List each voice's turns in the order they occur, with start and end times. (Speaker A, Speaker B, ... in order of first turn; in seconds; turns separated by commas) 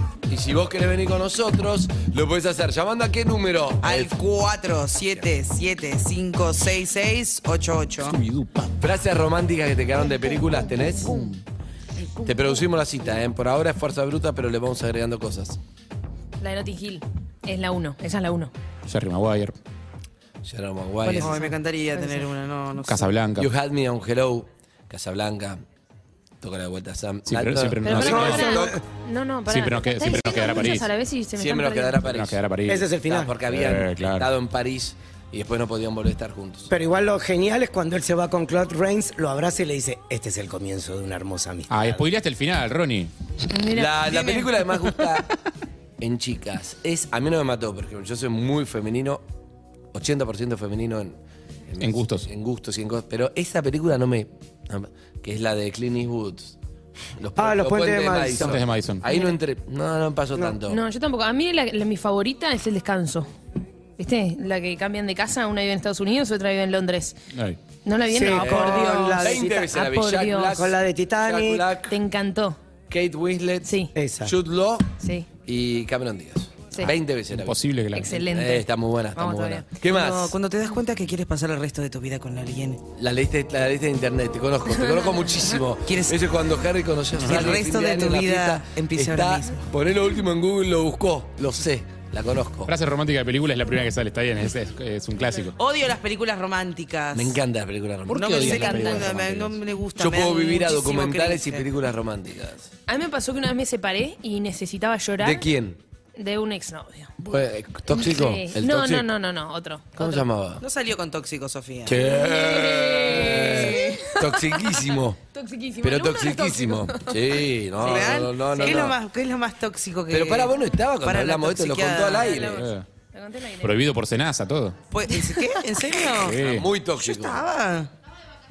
Speaker A: 0.3-4.1, Speaker B: 3.8-8.2, Speaker C: 8.0-8.8, Speaker A: 8.8-11.2, Speaker D: 10.1-11.3, Speaker C: 11.1-11.4, Speaker A: 12.2-15.6, Speaker D: 16.4-18.5, Speaker C: 18.9-19.6, Speaker A: 20.4-21.4, Speaker D: 21.0-22.3, Speaker B: 21.2-23.2, Speaker C: 22.9-23.5, Speaker A: 23.4-25.6, Speaker A: 26.4-28.8, Speaker C: 27.3-28.7, Speaker D: 27.8-32.0, Speaker E: 28.0-28.8, Speaker C: 29.5-30.9, Speaker A: 31.4-32.4, Speaker C: 32.0-32.9, Speaker E: 32.7-33.3, Speaker A: 33.1-36.7, Speaker C: 33.5-34.3, Speaker E: 36.7-42.0, Speaker C: 41.7-43.1, Speaker D: 43.5-44.4, Speaker A: 43.7-45.3, Speaker B: 44.1-44.4, Speaker A: 46.0-49.2, Speaker A: 49.9-51.2, Speaker A: 51.7-56.5, Speaker C: 51.8-52.3, Speaker A: 57.2-60.8, Speaker E: 57.4-58.6, Speaker C: 58.4-59.0, Speaker D: 60.7-63.3, Speaker D: 64.0-67.2, Speaker C: 67.3-67.6, Speaker D: 67.8-70.6, Speaker E: 68.1-69.7, Speaker A: 68.4-71.9, Speaker E: 70.5-71.7, Speaker D: 71.9-72.6, Speaker A: 72.9-73.7, Speaker D: 73.6-73.9, Speaker E: 74.0-74.4, Speaker A: 74.2-74.9, Speaker D: 75.0-75.3, Speaker A: 75.5-77.6, Speaker C: 77.3-78.2, Speaker D: 77.9-79.7, Speaker A: 78.2-80.3, Speaker B: 79.8-82.8, Speaker A: 83.0-92.7, Speaker D: 84.8-85.4, Speaker B: 85.9-86.2, Speaker B: 87.2-89.7, Speaker C: 87.2-87.5, Speaker C: 92.7-95.6, Speaker B: 95.6-97.4, Speaker A: 97.1-102.7, Speaker C: 98.1-99.4, Speaker B: 98.1-101.7, Speaker D: 98.3-99.1, Speaker D: 102.9-105.5, Speaker A: 105.2-105.8, Speaker D: 106.2-107.1, Speaker A: 107.2-109.1, Speaker D: 107.9-110.2, Speaker A: 110.0-110.6, Speaker B: 110.6-112.0, Speaker A: 111.9-115.2, Speaker D: 111.9-114.7, Speaker B: 113.3-113.9, Speaker D: 115.3-117.2, Speaker A: 115.8-119.0, Speaker B: 117.8-122.5, Speaker D: 118.5-118.9, Speaker A: 120.1-122.7, Speaker D: 122.1-123.8, Speaker C: 122.5-122.8, Speaker C: 123.6-124.8, Speaker B: 124.9-126.4, Speaker D: 125.1-125.5, Speaker C: 126.2-126.7, Speaker A: 126.2-127.4, Speaker B: 127.0-127.9